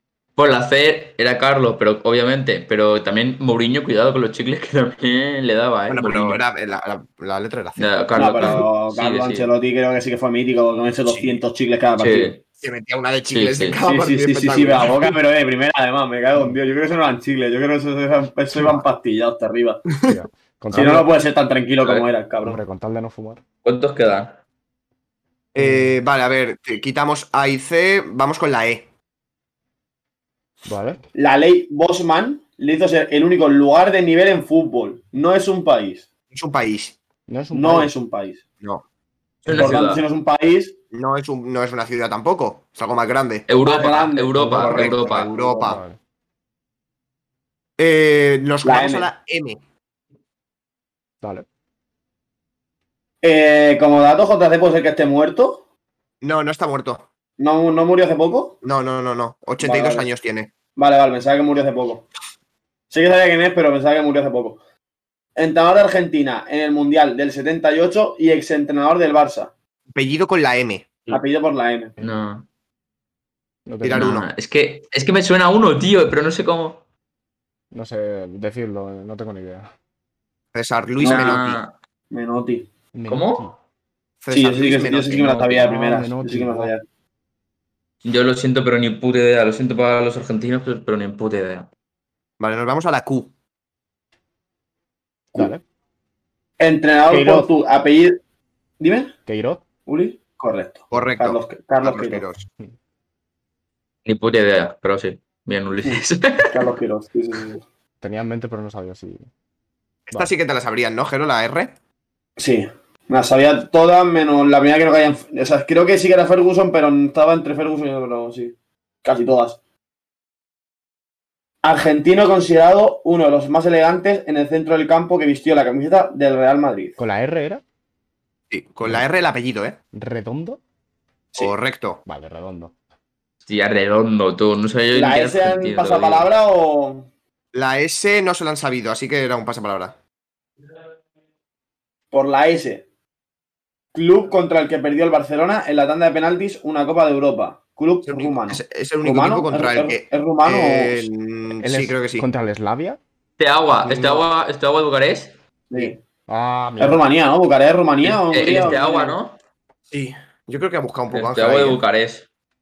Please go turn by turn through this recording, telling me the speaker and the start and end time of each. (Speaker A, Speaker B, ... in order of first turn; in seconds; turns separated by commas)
Speaker A: 0.4-6.4, Speaker B: 5.9-8.6, Speaker A: 7.8-9.5, Speaker C: 8.2-12.3, Speaker B: 11.1-11.4, Speaker A: 12.0-12.4, Speaker B: 12.5-15.2, Speaker A: 13.3-13.8, Speaker C: 13.8-19.8, Speaker B: 19.9-20.2, Speaker D: 20.0-21.1, Speaker C: 20.7-22.6, Speaker D: 22.4-23.4, Speaker A: 23.6-24.4, Speaker B: 25.6-28.9, Speaker D: 25.6-26.0, Speaker D: 30.7-31.0, Speaker C: 31.1-36.0, Speaker B: 36.3-37.0, Speaker D: 37.3-37.9, Speaker C: 37.5-38.4, Speaker A: 39.5-40.0, Speaker C: 39.5-40.8, Speaker B: 40.9-45.8, Speaker A: 43.5-45.3, Speaker C: 43.6-45.8, Speaker D: 45.6-46.0, Speaker B: 47.8-49.6, Speaker C: 48.6-49.1, Speaker C: 53.2-55.6, Speaker B: 56.2-57.1, Speaker C: 57.4-58.6, Speaker B: 58.6-60.5, Speaker C: 59.6-60.1, Speaker C: 60.8-62.1, Speaker C: 62.9-64.6, Speaker C: 65.4-69.5, Speaker B: 69.9-70.9, Speaker C: 71.1-71.9, Speaker A: 72.0-72.5, Speaker D: 73.7-74.1, Speaker B: 73.8-74.3, Speaker A: 73.9-76.8, Speaker D: 77.7-79.7, Speaker B: 80.5-81.6, Speaker C: 81.0-81.4, Speaker A: 81.0-81.7, Speaker C: 82.1-82.7, Speaker D: 82.9-83.5, Speaker A: 83.1-83.5, Speaker B: 84.2-85.6, Speaker C: 84.3-86.8, Speaker D: 85.5-86.7, Speaker A: 88.0-91.7, Speaker B: 92.4-93.3, Speaker D: 95.3-95.6, Speaker C: 96.6-98.2, Speaker D: 97.1-97.5, Speaker C: 98.8-99.1, Speaker D: 99.3-99.6, Speaker C: 99.9-102.2, Speaker B: 100.9-102.5, Speaker A: 104.0-106.7, Speaker C: 105.8-107.6, Speaker D: 108.0-109.3, Speaker B: 110.1-111.7, Speaker C: 112.4-119.6, Speaker C: 121.6-127.0, Speaker D: 127.0-127.6, Speaker B: 128.5-129.8, Speaker D: 129.9-130.6, Speaker B: 131.3-132.0, Speaker D: 132.1-132.7, Speaker A: 133.5-136.3, Speaker C: 134.9-137.1, Speaker B: 137.5-140.0, Speaker C: 142.1-142.8, Speaker C: 143.9-151.1, Speaker B: 148.1-152.3, Speaker D: 151.6-153.0, Speaker A: 153.4-155.3, Speaker B: 153.7-154.2, Speaker C: 155.7-156.0, Speaker D: 156.3-157.0, Speaker C: 156.8-159.2, Speaker A: 158.0-159.4, Speaker B: 159.9-161.8, Speaker A: 161.1-162.3